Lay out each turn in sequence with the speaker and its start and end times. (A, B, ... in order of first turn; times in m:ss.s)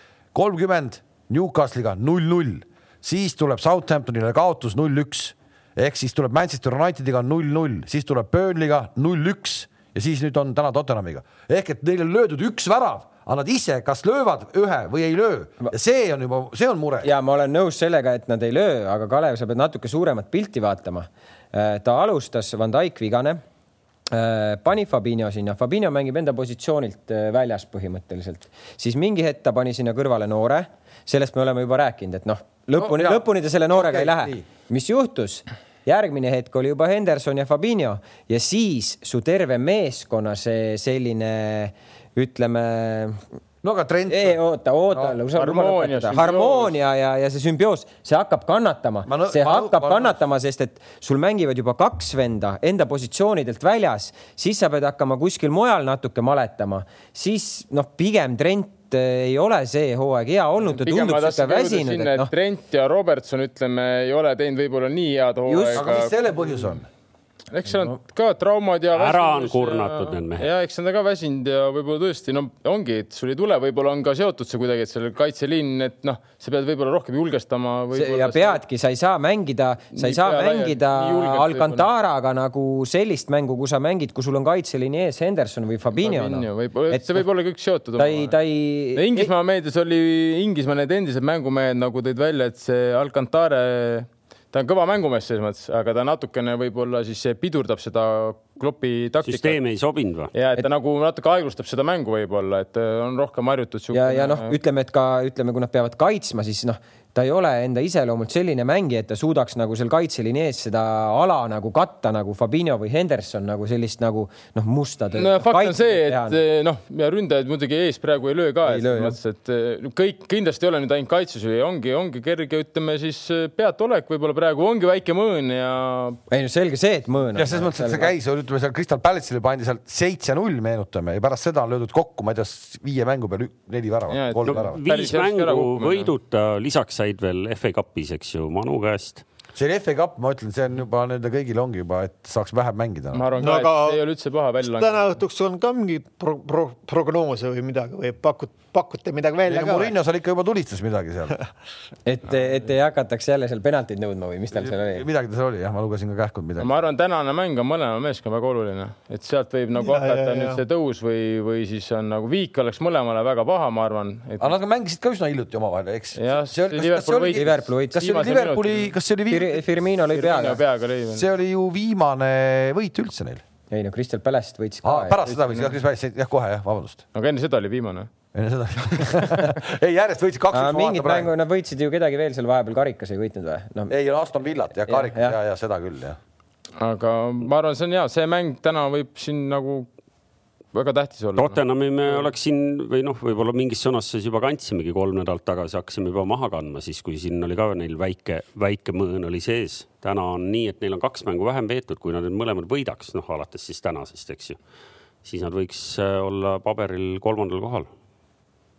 0:00.3-0:17.1 A
0:17.0-0:23.4 B
0:24.1-0:43.2 B
0:32.8-0:34.4 A
0:43.6-0:44.4 A
0:44.1-1:02.3 B
0:45.3-0:46.8 C
0:49.1-0:50.2 A
1:00.7-1:06.1 C
1:05.5-1:06.0 B
1:05.8-1:06.9 A
1:07.5-1:18.6 C
1:08.9-1:10.5 D
1:17.9-1:27.2 B
1:19.9-1:21.9 C
1:25.9-1:28.4 C
1:28.0-1:29.3 B
1:29.0-1:39.6 C
1:39.2-1:40.3 D
1:40.3-1:44.6 C
1:43.9-1:56.4 B
1:55.1-2:06.2 C
1:58.6-1:59.2 B
2:06.3-2:08.1 B
2:07.4-2:14.8 A
2:14.1-2:16.1 C
2:14.5-2:19.2 D
2:19.6-2:23.3 A
2:23.1-2:25.0 C
2:23.4-2:24.0 E
2:24.6-2:29.9 E
2:29.4-2:31.4 A
2:32.1-2:35.1 B
2:34.5-2:36.8 A
2:36.6-2:44.5 C
2:39.8-2:40.6 E
2:44.4-2:49.6 A
2:46.2-2:48.9 C
2:47.3-2:48.1 B
2:49.3-2:50.6 B
2:50.1-2:51.2 C
2:51.1-2:53.4 A
2:53.7-2:55.2 B
2:54.8-2:57.0 A
2:55.3-2:55.7 C
2:57.1-2:58.1 C
2:58.3-3:01.3 A
3:00.5-3:03.9 B
3:03.9-3:06.2 A
3:04.9-3:05.4 B
3:06.8-3:09.9 C
3:10.7-3:11.6 C
3:11.4-3:24.6 D
3:25.2-3:27.9 D